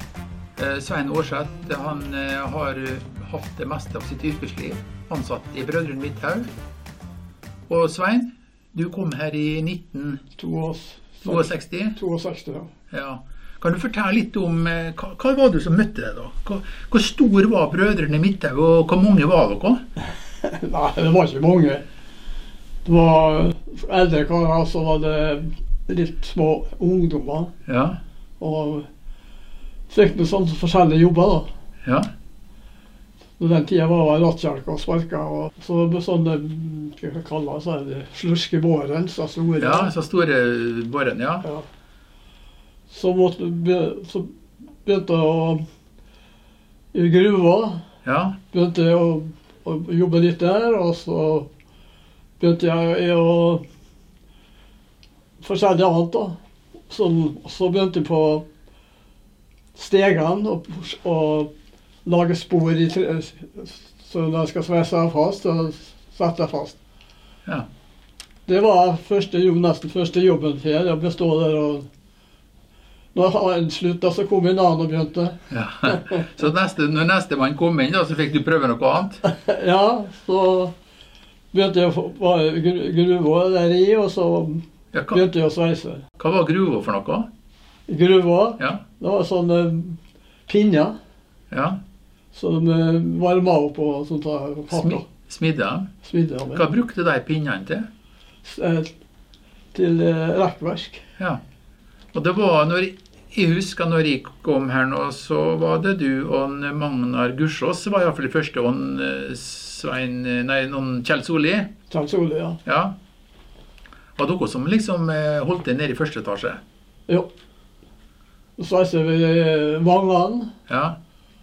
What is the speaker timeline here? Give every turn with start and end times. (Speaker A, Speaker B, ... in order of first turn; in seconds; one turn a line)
Speaker A: 0.6-6.5
Speaker A: 7.7-10.2
Speaker B: 10.4-12.7
Speaker A: 11.2-12.0
Speaker A: 12.9-19.8
Speaker B: 20.4-21.9
Speaker B: 22.9-27.5
Speaker A: 27.7-28.0
Speaker B: 28.4-28.9
Speaker B: 29.9-31.5
Speaker A: 31.8-32.1
Speaker B: 33.4-39.9
Speaker A: 39.6-41.5
Speaker B: 42.9-44.3
Speaker B: 44.9-45.6
Speaker B: 46.9-47.8
Speaker A: 48.0-48.4
Speaker B: 48.5-51.5
Speaker B: 52.4-53.6
Speaker B: 55.4-56.4
Speaker B: 56.9-58.5
Speaker B: 59.8-61.5
Speaker B: 62.0-66.8
Speaker B: 68.5-71.9
Speaker B: 73.2-76.2
Speaker A: 75.5-79.2
Speaker B: 79.2-80.7
Speaker B: 81.5-86.0
Speaker A: 84.9-85.2
Speaker A: 86.2-87.3
Speaker B: 87.9-91.0
Speaker A: 91.5-91.8
Speaker B: 92.3-95.0
Speaker A: 94.7-95.9
Speaker B: 96.0-96.6
Speaker A: 96.5-97.9
Speaker B: 98.5-98.9
Speaker B: 99.7-101.0
Speaker A: 102.1-111.7
Speaker B: 111.9-112.6
Speaker A: 112.7-113.0
Speaker A: 114.2-116.6
Speaker B: 118.6-120.5
Speaker A: 120.7-121.0